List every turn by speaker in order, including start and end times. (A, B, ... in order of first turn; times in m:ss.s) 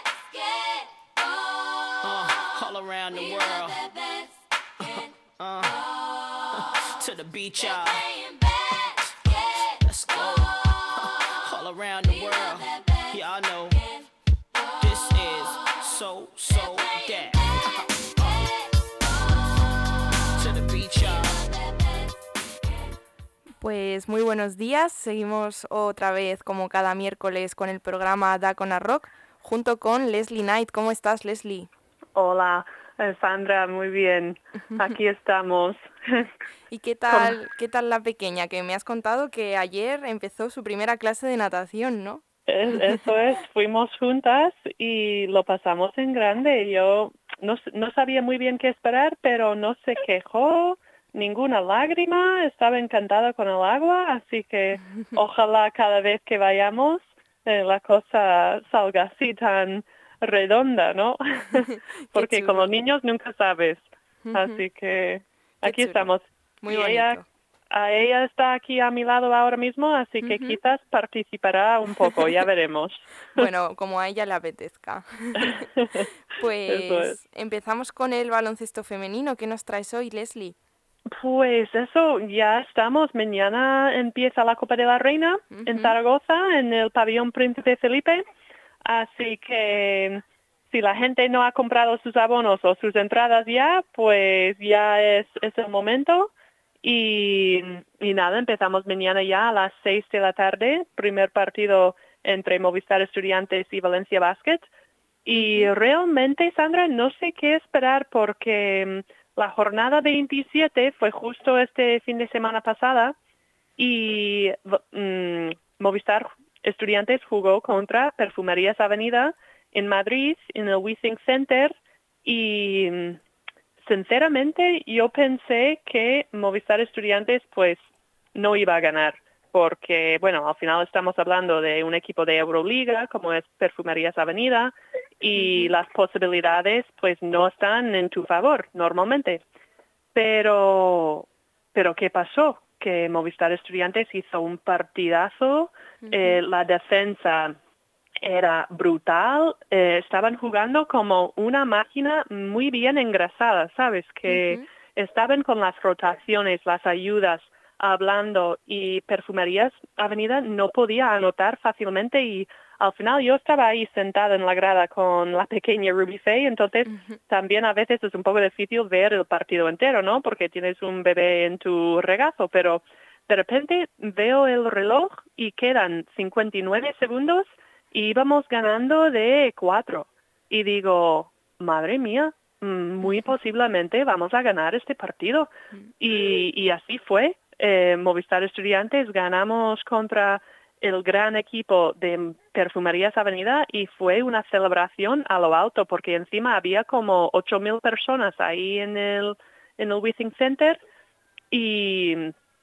0:00.3-0:00.6 A
0:01.9-0:14.0 A
0:14.8-0:18.5 A
0:20.3-0:21.8 A
0:23.6-0:31.7 B
0:32.1-0:36.3 C
0:36.7-0:42.2 B
0:37.1-0:37.4 C
0:42.5-1:07.2 C
1:01.7-1:02.7 B
1:04.2-1:04.6 B
1:05.6-1:06.1 B
1:06.6-1:07.2 B
1:07.7-1:13.5 C
1:10.2-1:10.6 B
1:13.3-1:15.7 B
1:15.4-1:16.1 C
1:16.3-1:20.5 B
1:16.7-1:17.2 C
1:21.1-1:28.2 C
1:25.5-1:25.9 B
1:28.8-1:36.3 C
1:36.8-1:44.7 C
1:45.2-1:53.1 C
1:45.3-1:45.7 B
1:53.8-2:03.2 C
2:03.8-2:07.8 C
2:08.3-2:19.4 C
2:15.4-2:15.7 B
2:20.1-2:27.6 C
2:26.0-2:26.4 B
2:28.2-3:20.8 C
2:34.3-2:34.6 B
2:46.9-2:47.2 B
3:21.5-3:22.3 C